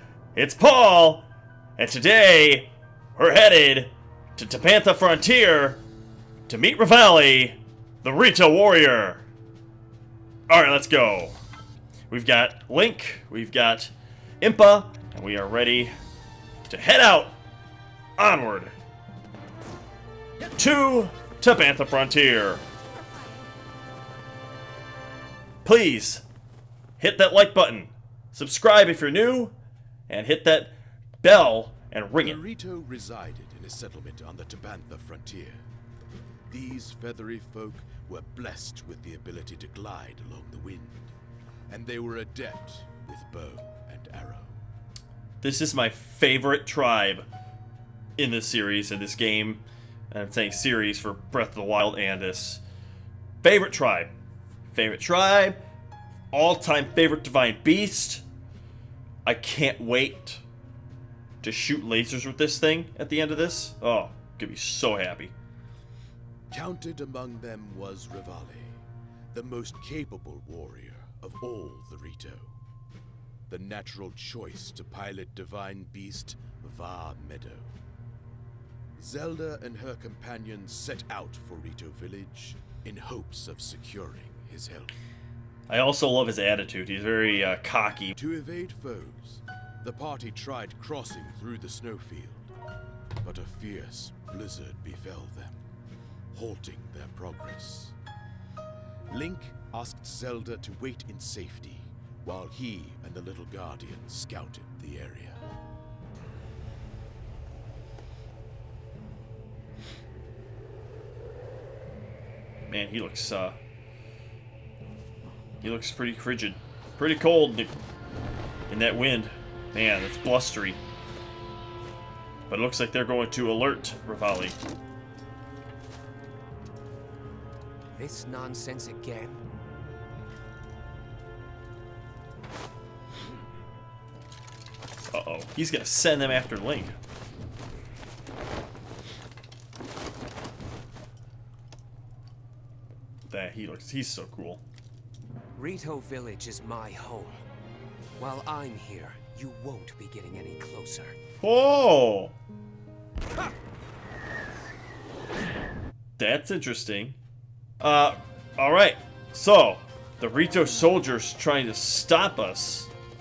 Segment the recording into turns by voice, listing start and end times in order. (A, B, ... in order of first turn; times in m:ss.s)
0:00.4-0:05.8 A
0:06.5-0:09.2 A
0:10.5-0:11.4 A
0:12.1-0:15.9 A
0:16.7-0:17.4 A
0:18.2-0:18.7 A
0:20.6-0:22.6 A
0:25.6-0:26.2 A
0:27.0-0:29.5 A
0:30.1-0:32.4 A
0:32.2-0:35.6 B
0:36.5-0:41.0 B
0:41.7-0:44.6 B
0:45.4-0:47.3 A
0:48.2-0:52.6 A
0:53.4-0:54.1 A
0:54.7-0:55.6 A
0:56.3-0:58.2 A
0:59.2-1:00.4 A
1:01.4-1:05.3 A
1:06.5-1:08.8 B
1:09.3-1:12.5 B
1:13.5-1:17.7 B
1:19.0-1:24.9 B
1:25.7-1:28.2 A
1:28.2-1:32.5 B
1:33.2-1:35.6 B
1:36.3-1:38.0 B
1:39.1-1:45.4 B
1:52.7-1:53.6 A
1:55.6-1:57.7 A
1:58.7-2:00.8 A
2:02.5-2:04.6 A
2:08.0-2:09.4 C
2:15.1-2:17.0 A
2:23.3-2:24.6 A
2:25.6-2:27.4 C
2:28.2-2:31.2 C
2:31.4-2:32.4 A
2:36.2-2:37.2 A
2:37.8-2:42.9 A